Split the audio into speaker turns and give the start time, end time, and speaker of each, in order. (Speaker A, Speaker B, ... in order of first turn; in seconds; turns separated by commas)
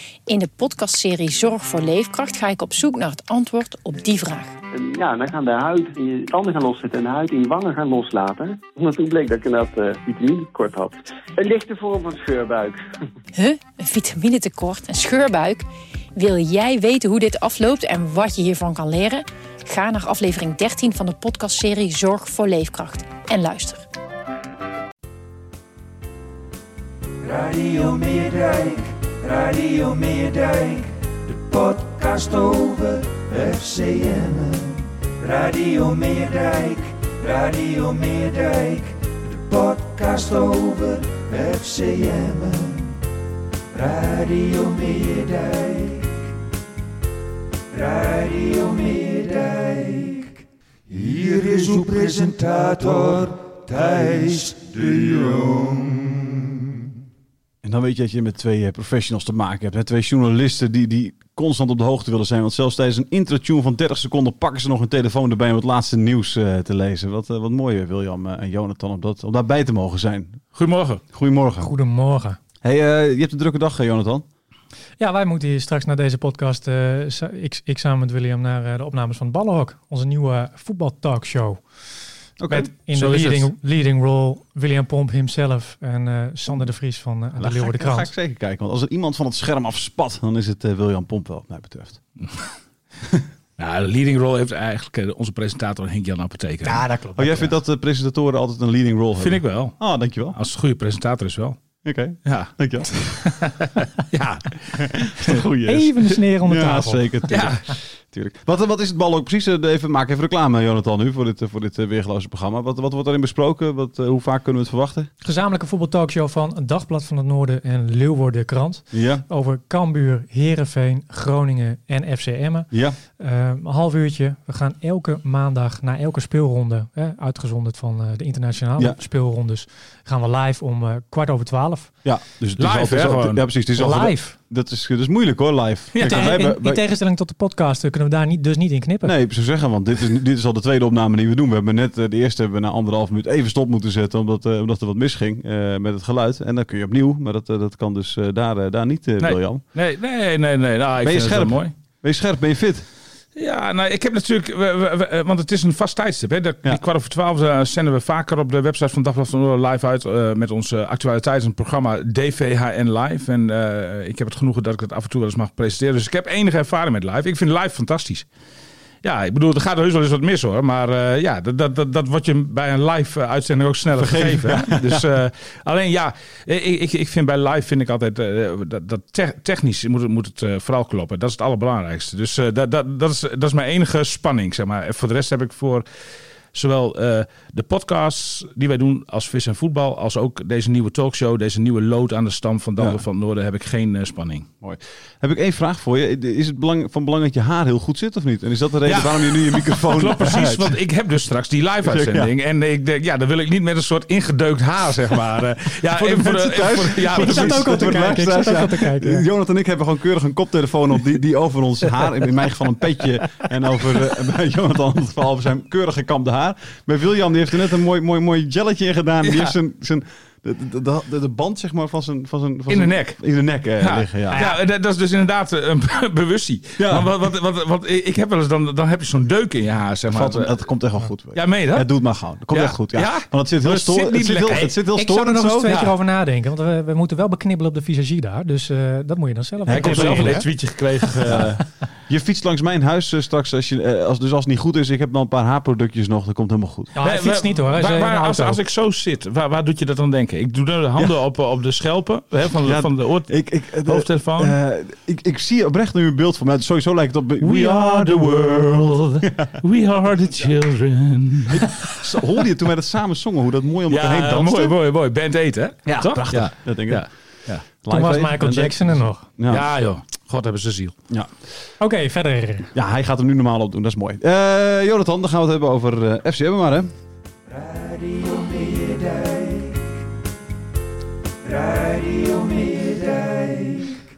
Speaker A: 0.3-4.5, Speaker B: 4.7-12.8, Speaker A: 13.3-23.9, Speaker C: 27.2-43.0, Speaker C: 43.7-46.2, Speaker C: 47.7-56.5, Speaker D: 57.6-70.4, Speaker E: 70.5-71.0, Speaker D: 71.1-71.7, Speaker F: 71.6-72.4, Speaker D: 72.6-74.2, Speaker F: 75.0-81.6, Speaker D: 82.4-83.4, Speaker F: 82.5-88.1, Speaker D: 87.4-92.0, Speaker E: 93.6-96.8, Speaker F: 96.6-97.5, Speaker D: 97.2-100.4, Speaker E: 99.2-99.8, Speaker E: 100.3-101.6, Speaker D: 101.8-103.3, Speaker E: 102.2-105.4, Speaker D: 104.8-115.1, Speaker F: 105.6-107.2, Speaker E: 107.3-107.6, Speaker F: 115.2-131.9, Speaker D: 118.9-119.2, Speaker D: 122.7-123.0, Speaker D: 132.1-136.8, Speaker E: 132.6-133.4, Speaker F: 133.8-134.4, Speaker E: 135.9-136.3, Speaker F: 136.0-139.2, Speaker D: 139.0-149.6, Speaker E: 149.2-151.7, Speaker D: 151.0-152.9, Speaker E: 153.4-168.3, Speaker E: 169.0-185.8, Speaker D: 174.0-175.1, Speaker E: 186.5-194.5, Speaker D: 194.6-200.8, Speaker E: 198.9-207.9, Speaker D: 201.8-202.3, Speaker D: 205.9-224.4, Speaker F: 207.1-209.2, Speaker E: 219.3-219.5, Speaker E: 222.7-223.2, Speaker E: 223.8-230.6, Speaker F: 224.3-224.6, Speaker D: 226.8-227.1, Speaker D: 230.1-235.8, Speaker E: 231.3-231.9, Speaker E: 232.5-234.7, Speaker F: 234.5-240.5, Speaker E: 235.7-235.9, Speaker D: 239.6-240.5, Speaker E: 239.7-241.6, Speaker D: 241.2-246.9, Speaker F: 247.0-248.6, Speaker E: 247.0-254.6, Speaker D: 252.5-259.5, Speaker E: 257.4-261.7, Speaker D: 261.5-264.8, Speaker E: 263.9-267.6, Speaker D: 265.9-267.1, Speaker D: 267.8-269.7, Speaker F: 267.9-269.3, Speaker E: 269.5-270.9, Speaker F: 271.8-272.7, Speaker D: 272.7-276.9, Speaker C: 277.5-279.9, Speaker C: 281.4-284.0